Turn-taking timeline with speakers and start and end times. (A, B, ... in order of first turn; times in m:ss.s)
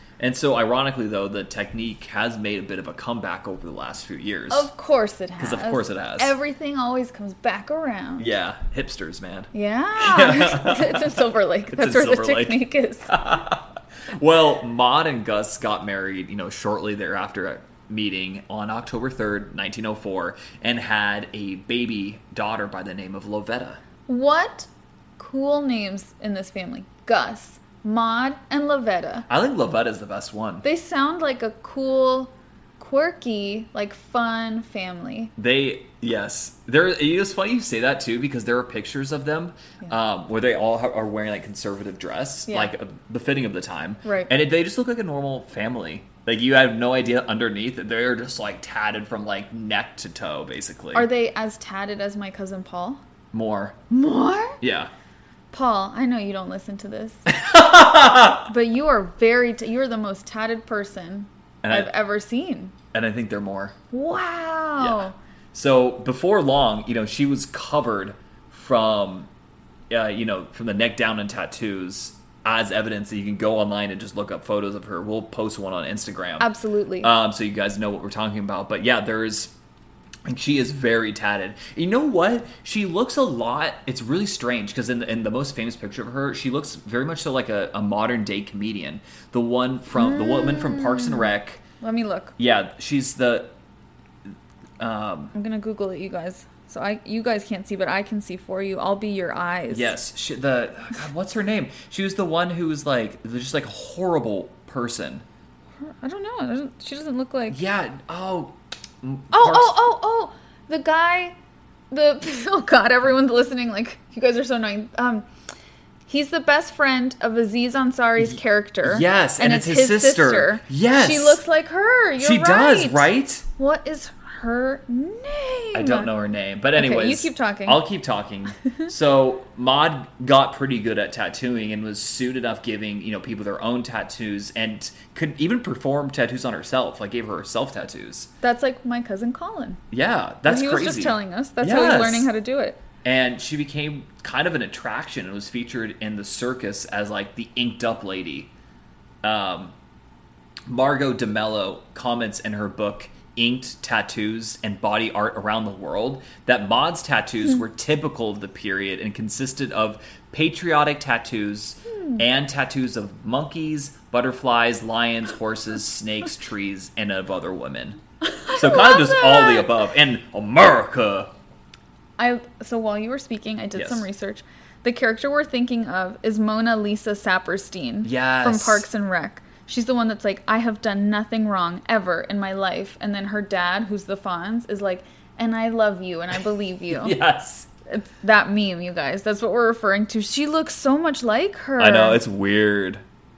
0:00.2-0:04.7 A
0:04.5-0:08.3 B
0:05.4-0:06.3 A
0:08.2-0:23.8 A
0:09.5-0:13.1 B
0:24.1-0:29.3 B
0:29.3-0:30.6 A
0:30.6-0:35.3 B
0:35.4-0:51.1 A
0:42.5-0:42.7 B
0:44.0-0:44.3 B
0:50.9-0:53.0 B
0:53.3-0:53.8 A
0:53.9-0:54.6 B
0:54.6-0:54.9 A
0:55.5-0:57.3 B
0:57.3-0:58.5 A
0:58.5-1:02.7 B
1:01.6-1:01.9 A
1:02.9-1:03.8 A
1:03.9-1:05.2 B
1:04.8-1:09.3 A
1:09.9-1:16.5 A
1:16.4-1:17.1 B
1:17.0-1:19.5 A
1:20.3-1:31.6 A
1:30.0-1:32.3 B
1:32.4-1:33.5 A
1:34.8-1:35.3 A
1:35.3-1:39.9 B
1:39.7-1:45.2 A
1:45.8-1:47.6 B
1:47.5-1:49.8 A
1:49.3-1:51.4 B
1:51.9-1:55.3 B
1:56.1-2:06.1 B
1:58.2-2:01.4 A
2:02.2-2:03.5 A
2:05.7-2:18.3 A
2:06.8-2:07.8 B
2:18.4-2:19.8 B
2:19.9-2:22.3 A
2:20.4-2:22.8 B
2:23.0-2:28.5 A
2:29.2-2:29.8 A
2:30.7-2:51.3 A
2:41.9-2:42.2 B
2:48.2-2:49.7 B
2:52.2-3:07.2 B
2:53.8-2:54.1 A
2:58.0-2:58.9 A
3:06.9-3:07.7 A
3:07.9-3:12.2 B
3:11.8-3:13.0 A